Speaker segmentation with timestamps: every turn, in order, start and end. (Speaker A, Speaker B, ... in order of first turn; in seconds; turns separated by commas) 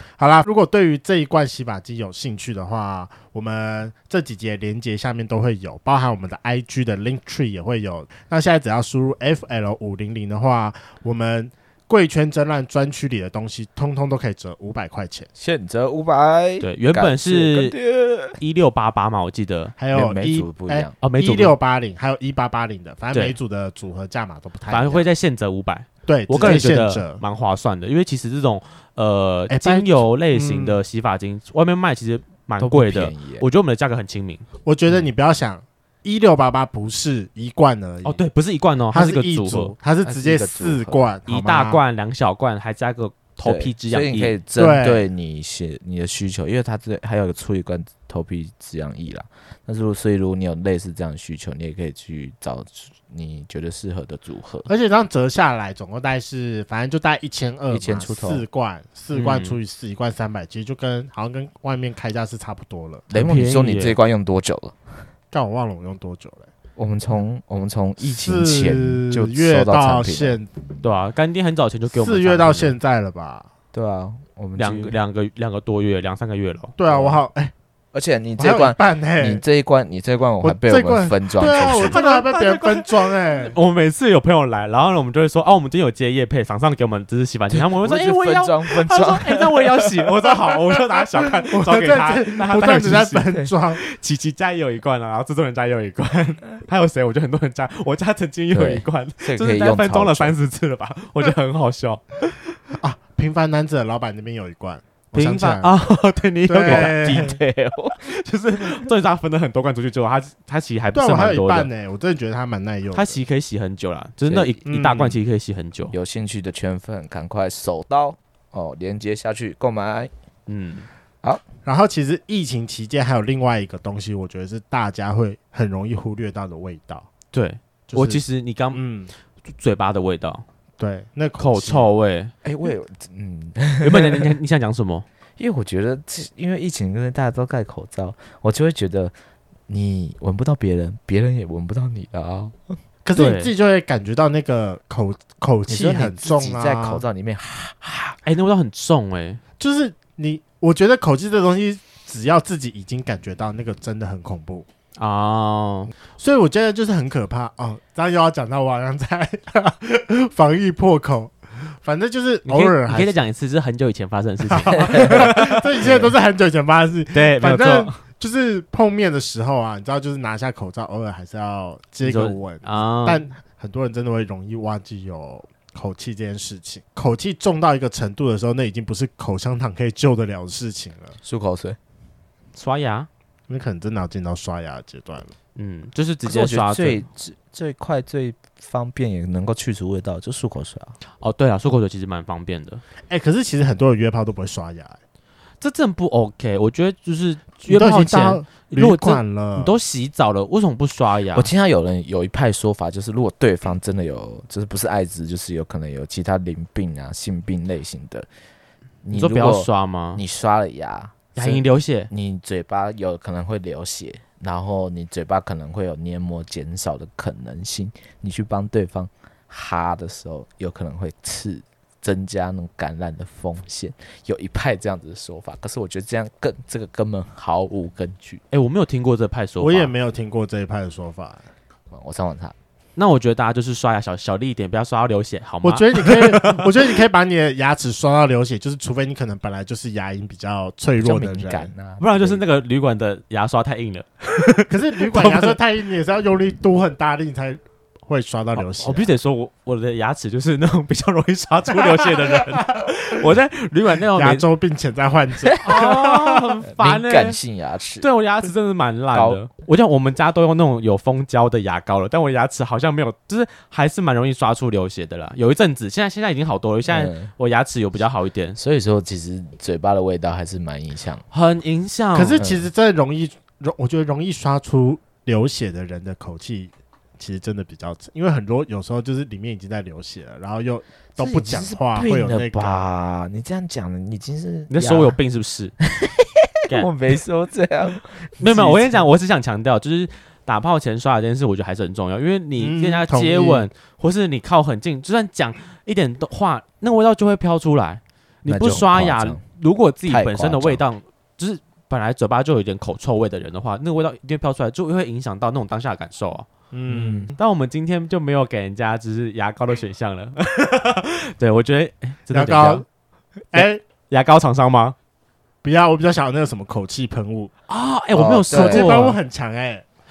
Speaker A: 0.2-15.3, Speaker B: 15.3-18.4, Speaker C: 16.6-17.7, Speaker C: 18.4-19.7, Speaker A: 19.8-25.1, Speaker B: 19.9-20.9, Speaker C: 21.0-21.5, Speaker C: 24.7-34.4, Speaker A: 26.1-27.2, Speaker A: 29.5-30.8, Speaker B: 32.6-33.5, Speaker A: 34.6-38.2, Speaker C: 38.0-39.7, Speaker A: 38.9-41.8, Speaker B: 40.0-41.1, Speaker C: 41.3-44.3, Speaker B: 43.4-54.7, Speaker A: 44.6-45.0, Speaker A: 54.7-63.0, Speaker B: 57.7-58.4, Speaker C: 59.1-59.6, Speaker B: 63.1-64.9, Speaker C: 63.1-64.0, Speaker A: 65.3-66.5, Speaker B: 66.8-70.4, Speaker A: 68.0-70.5, Speaker C: 70.8-72.7, Speaker A: 71.9-73.5, Speaker B: 73.7-75.0, Speaker C: 74.6-76.7, Speaker A: 76.8-77.5, Speaker B: 76.9-77.2, Speaker B: 77.9-82.0, Speaker A: 78.4-79.4, Speaker A: 80.4-83.5, Speaker C: 81.6-102.3, Speaker B: 87.5-90.1, Speaker A: 91.5-93.8, Speaker B: 98.5-100.3, Speaker A: 102.8-105.7, Speaker C: 105.1-111.7, Speaker A: 106.5-107.4, Speaker B: 106.7-106.9, Speaker A: 110.9-113.2, Speaker C: 112.9-115.9, Speaker B: 114.3-114.6, Speaker A: 114.7-115.2, Speaker B: 115.9-120.1, Speaker C: 120.5-120.9, Speaker A: 121.6-127.1, Speaker C: 127.3-128.8, Speaker A: 127.9-128.2, Speaker A: 128.7-129.1, Speaker C: 129.5-130.4, Speaker A: 130.8-131.9, Speaker C: 131.4-132.3, Speaker B: 132.4-134.3, Speaker C: 133.8-135.1, Speaker B: 135.4-139.1, Speaker B: 139.7-142.7, Speaker A: 143.0-147.0, Speaker C: 143.1-143.5, Speaker B: 145.7-148.2, Speaker C: 148.2-149.4, Speaker A: 149.6-154.7, Speaker C: 155.0-155.9, Speaker A: 156.2-163.1, Speaker C: 162.4-165.9, Speaker A: 164.5-181.2, Speaker B: 164.9-165.2, Speaker B: 165.8-166.1, Speaker C: 167.1-168.0, Speaker C: 172.0-173.2, Speaker B: 181.2-181.8, Speaker C: 182.5-183.1, Speaker A: 183.5-185.3, Speaker C: 185.6-187.0, Speaker B: 186.2-190.9, Speaker C: 191.2-192.8, Speaker A: 193.1-195.0, Speaker C: 195.6-201.5, Speaker A: 197.7-199.7, Speaker B: 201.3-208.3, Speaker B: 209.0-228.4, Speaker C: 209.1-210.2, Speaker C: 211.3-212.1, Speaker C: 228.5-229.9, Speaker A: 229.6-231.4, Speaker B: 231.9-232.5, Speaker C: 232.9-236.7, Speaker A: 235.6-241.7, Speaker B: 241.0-242.4, Speaker C: 242.0-245.6, Speaker A: 244.7-249.1, Speaker C: 248.7-254.4, Speaker A: 252.0-252.9, Speaker A: 254.1-256.5, Speaker C: 255.6-257.4, Speaker B: 256.7-258.1, Speaker C: 258.0-268.6, Speaker B: 259.1-259.4, Speaker B: 266.9-267.3, Speaker B: 268.6-271.2, Speaker C: 271.3-272.4, Speaker A: 272.1-282.9, Speaker B: 272.4-272.7, Speaker B: 281.2-285.2, Speaker C: 284.7-285.7, Speaker B: 285.8-289.0, Speaker C: 288.4-306.4, Speaker A: 292.6-293.7, Speaker B: 298.4-299.4, Speaker B: 300.1-300.8, Speaker A: 306.7-307.3, Speaker B: 306.9-307.3, Speaker C: 307.4-312.8, Speaker A: 312.3-312.8, Speaker A: 313.5-313.8, Speaker C: 313.5-314.9, Speaker A: 315.6-317.5, Speaker C: 317.7-319.1, Speaker B: 318.1-319.1, Speaker A: 318.5-319.8